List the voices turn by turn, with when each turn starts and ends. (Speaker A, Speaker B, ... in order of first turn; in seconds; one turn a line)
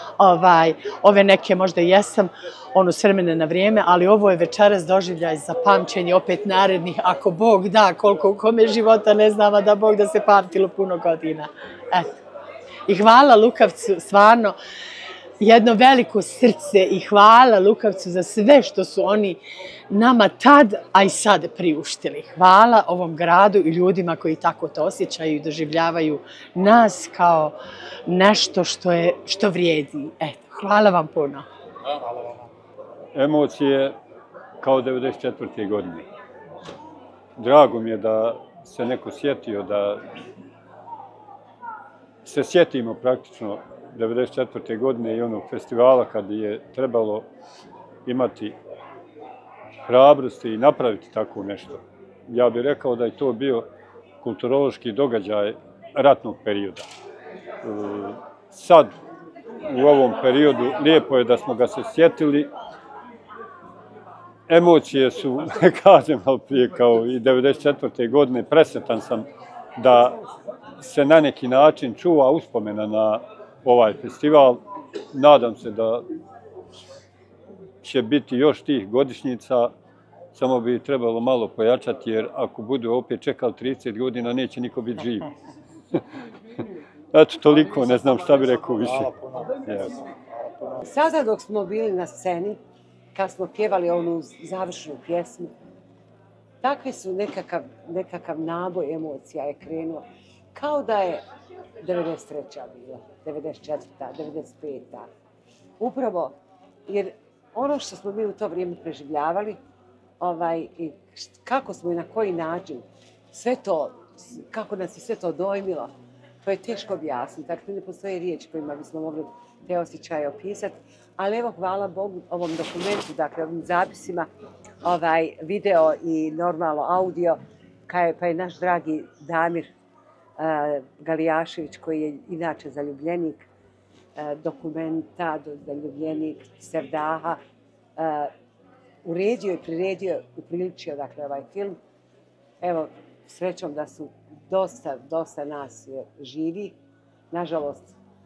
Speaker A: 0.2-12.1
Speaker A: 12.9-14.6
Speaker A: 15.4-27.6
Speaker A: 28.1-31.5
Speaker B: 31.9-32.5
Speaker C: 33.1-34.0
Speaker C: 34.6-36.1
Speaker C: 37.4-40.1
Speaker C: 42.2-47.3
Speaker C: 48.1-48.5
Speaker C: 49.9-53.7
Speaker C: 54.2-56.9
Speaker C: 57.6-59.0
Speaker C: 59.6-62.5
Speaker C: 64.5-70.2
Speaker C: 70.8-76.1
Speaker C: 77.8-79.7
Speaker C: 80.3-85.3
Speaker C: 87.1-89.1
Speaker B: 88.8-90.8
Speaker C: 89.7-89.9
Speaker D: 90.8-92.6
Speaker D: 93.2-95.5
Speaker D: 96.6-101.2
Speaker D: 101.8-105.1
Speaker D: 105.8-106.3
Speaker D: 106.9-109.6
Speaker D: 110.2-124.3
Speaker D: 124.8-129.7
Speaker D: 130.4-133.5
Speaker D: 134.2-137.4
Speaker D: 138.0-138.3
Speaker D: 139.0-141.8
Speaker D: 142.6-146.8
Speaker D: 147.3-148.0